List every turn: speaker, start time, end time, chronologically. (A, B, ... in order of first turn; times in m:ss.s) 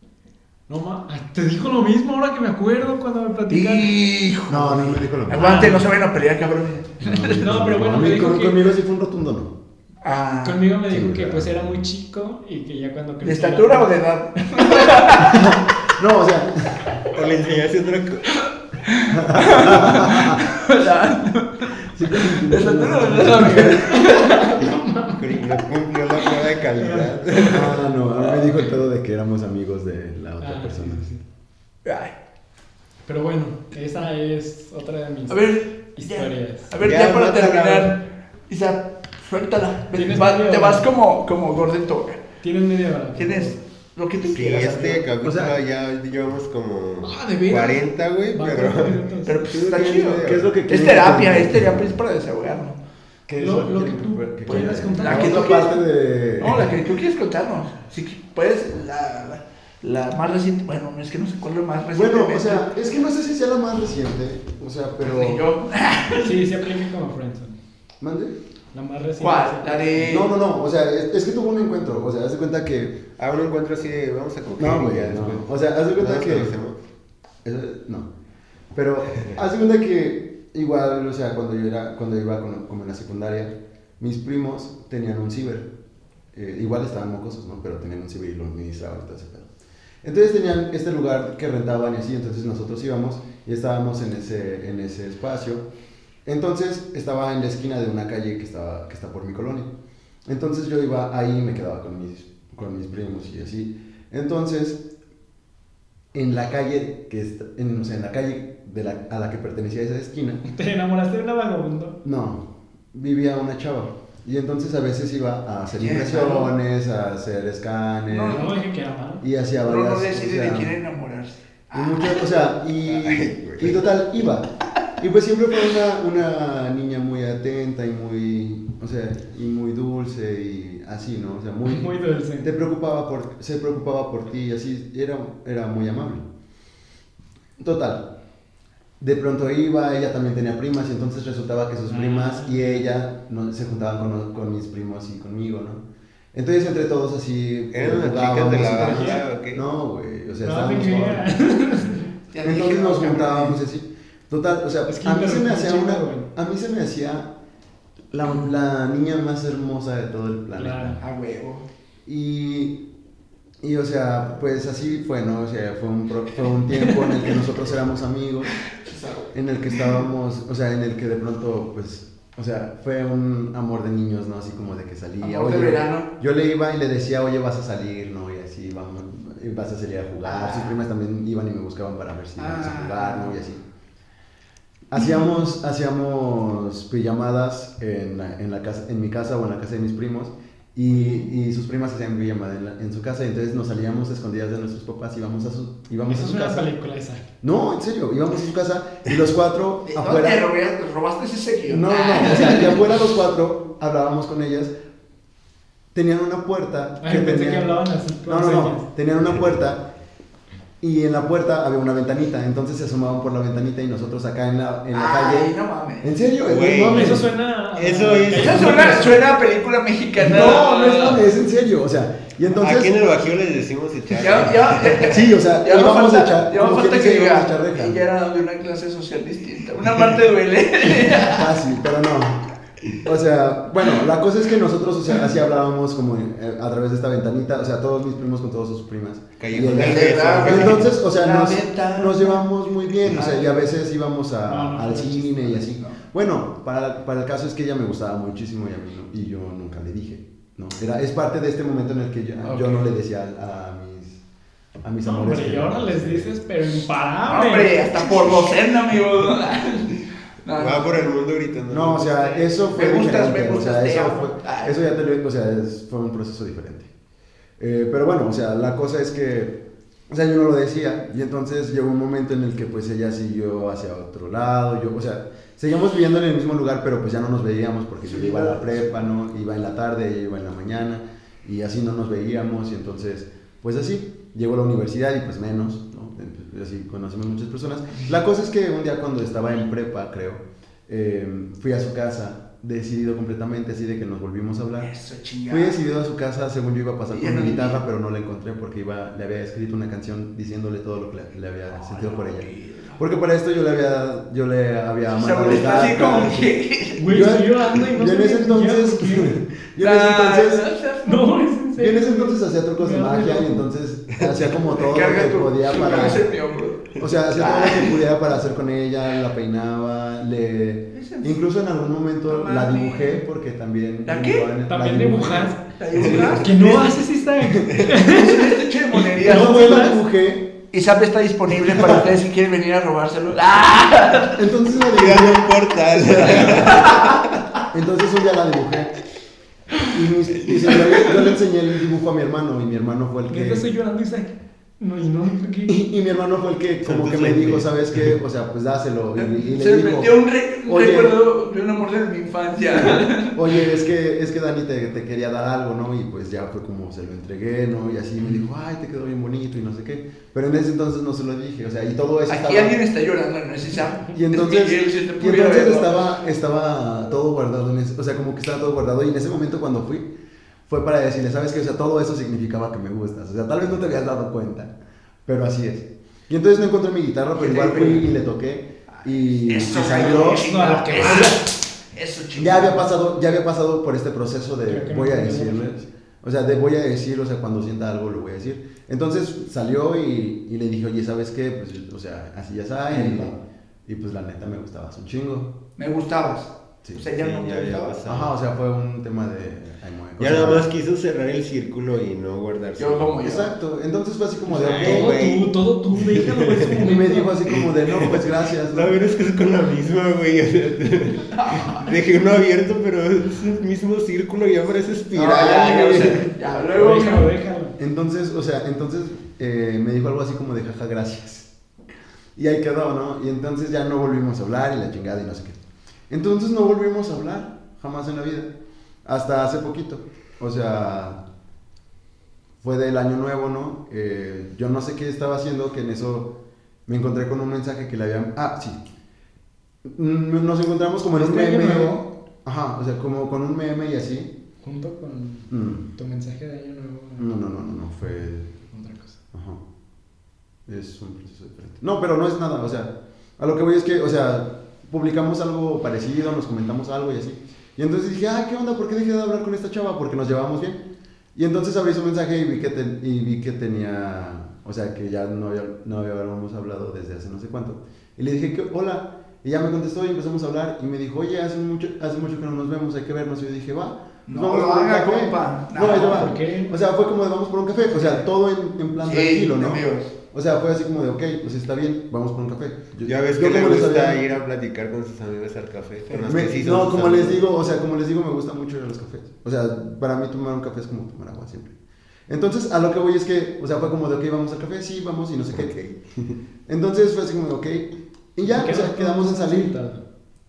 0:00.7-0:03.9 A
0:03.5-0:07.7 B
0:04.5-0:05.8 C
0:05.3-0:05.8 A
0:07.0-0:09.5 C
0:07.4-0:08.6 A
0:10.0-0:10.7 B
0:10.4-0:13.9 A
0:10.9-0:11.5 C
0:13.2-0:15.5 B
0:15.2-0:16.9 C
0:17.1-0:18.3 D
0:18.9-0:24.6 B
0:19.1-0:20.4 C
0:21.8-0:23.9 C
0:23.7-0:25.4 A
0:25.1-0:27.8 D
0:26.8-0:27.4 A
0:27.5-0:31.0 C
0:30.4-0:31.2 A
0:31.8-0:32.1 B
0:33.1-0:36.7 A
0:35.3-0:42.2 B
0:36.8-0:37.9 D
0:39.9-0:40.9 A
0:42.4-0:43.6 A
0:43.1-0:45.0 B
0:44.2-0:50.6 D
0:45.2-0:45.6 C
0:47.0-0:49.5 A
0:49.2-0:52.8 B
0:50.0-0:52.0 C
0:53.3-0:56.8 C
0:53.4-0:55.6 A
0:54.5-0:55.8 B
0:56.4-1:02.7 B
1:01.9-1:05.4 C
1:05.0-1:06.4 B
1:06.2-1:07.6 A
1:08.0-1:08.4 C
1:08.7-1:10.1 A
1:09.2-1:10.3 B
1:10.0-1:13.0 C
1:13.2-1:16.8 D
1:14.5-1:16.5 C
1:17.4-1:18.1 C
1:18.7-1:25.7 C
1:26.3-1:29.5 C
1:30.0-1:35.6 C
1:36.2-1:39.7 C
1:40.2-1:44.8 C
1:46.1-1:50.4 C
1:50.4-1:52.0 A
1:52.0-1:58.5 C
1:55.8-1:56.5 B
1:58.1-1:58.5 B
1:58.2-1:59.2 A
1:59.2-2:00.8 C
1:59.6-2:02.3 B
2:01.7-2:16.2 C
2:02.8-2:03.9 D
2:11.6-2:12.5 A
2:17.6-2:18.1 C
2:19.0-2:31.3 C
2:21.9-2:22.9 A
2:27.7-2:29.6 D
2:28.6-2:29.2 A
2:30.4-2:32.1 A
2:32.3-2:33.6 B
2:32.4-2:37.3 C
2:34.9-2:36.3 A
2:38.1-2:41.0 C
2:40.6-2:41.0 A
2:41.0-2:41.7 B
2:42.0-2:42.8 C
2:43.6-2:48.6 C
2:48.8-2:49.9 B
2:49.3-3:03.6 C
2:55.2-2:56.1 B
3:00.2-3:00.8 B
3:02.4-3:03.4 B
3:04.9-3:16.7 C
3:16.0-3:17.2 A
3:17.4-3:20.5 C
3:19.9-3:22.9 B
3:21.7-3:24.7 C
3:25.9-3:29.9 C
3:27.0-3:28.8 A
3:30.8-3:37.3 C
3:34.9-3:36.2 B
3:36.4-3:37.2 D
3:36.8-3:39.2 A
3:37.7-3:39.2 D
3:38.3-3:41.2 B
3:40.2-3:43.0 C
3:42.5-3:45.2 D
3:44.1-3:51.5 B
3:45.0-3:48.0 C
3:50.8-3:52.4 C
3:53.0-4:14.2 C
3:59.4-4:00.9 D
3:59.7-4:02.5 B
4:03.1-4:03.5 B
4:04.4-4:05.7 A
4:14.8-4:16.4 C
4:15.0-4:17.9 A
4:17.2-4:21.1 B
4:20.5-4:22.5 D
4:21.7-4:26.9 C
4:22.7-4:24.7 B
4:27.6-4:54.9 C
4:38.0-4:38.8 B
4:54.8-4:55.8 B
4:55.5-5:10.7 C
4:57.1-4:57.8 B
5:01.7-5:03.0 B
5:05.2-5:07.2 B
5:07.0-5:09.4 A
5:09.8-5:11.4 B
5:11.0-5:13.6 A
5:11.8-5:16.3 C
5:14.2-5:14.4 D
5:14.8-5:18.0 B
5:17.0-5:26.2 C
5:20.9-5:21.4 B
5:22.3-5:23.2 B
5:24.0-5:24.5 B
5:24.7-5:25.6 A
5:25.8-5:26.9 B
5:26.0-5:26.3 D
5:26.4-5:30.0 A
5:27.4-5:27.7 C
5:28.0-5:29.9 B
5:29.2-5:30.5 C
5:30.7-5:34.4 B
5:31.7-5:32.0 C
5:34.3-5:37.1 C
5:34.8-5:37.2 D
5:36.2-5:37.2 B
5:37.7-5:39.0 C
5:39.9-5:43.6 C
5:40.7-5:41.2 B
5:43.3-5:45.8 A
5:45.7-5:51.1 C
5:46.8-5:48.1 D
5:49.2-5:53.6 B
5:52.7-6:02.8 C
6:02.3-6:05.9 B
6:04.0-6:10.1 C
6:10.7-6:14.7 C
6:15.2-6:21.2 C
6:17.4-6:18.1 B
6:19.4-6:22.8 B
6:20.3-6:21.4 A
6:22.4-6:35.6 C
6:24.6-6:25.8 A
6:33.0-6:33.3 B
6:35.8-6:38.0 B
6:37.0-6:38.3 D
6:38.0-6:40.7 C
6:40.2-6:43.2 D
6:42.8-6:43.5 B
6:43.2-6:45.2 C
6:44.5-6:47.3 A
6:44.6-6:46.8 D
6:46.8-6:49.0 C
6:47.5-6:56.2 D
6:51.3-6:51.9 B
6:55.1-6:56.2 C
6:55.1-6:57.3 B
6:56.7-6:57.8 A
6:57.8-7:01.5 C
7:02.4-7:08.5 C
7:09.0-7:11.2 C
7:12.6-7:16.3 C
7:16.9-7:18.8 C
7:19.8-7:24.3 C
7:21.2-7:21.8 A
7:21.4-7:21.9 D
7:24.6-7:27.3 A
7:25.5-7:25.8 C
7:27.2-7:28.6 C
7:28.7-7:29.2 A
7:29.3-7:29.6 C
7:30.7-7:40.8 C
7:41.3-8:04.2 C
7:54.3-7:56.3 B
7:55.9-7:56.8 A
7:57.9-7:58.2 B
7:59.0-8:00.1 B
8:03.0-8:07.4 D
8:06.1-8:06.4 B
8:06.3-8:11.7 C
8:12.3-8:15.7 C
8:15.4-8:16.0 D
8:16.7-8:19.8 C
8:18.4-8:20.0 A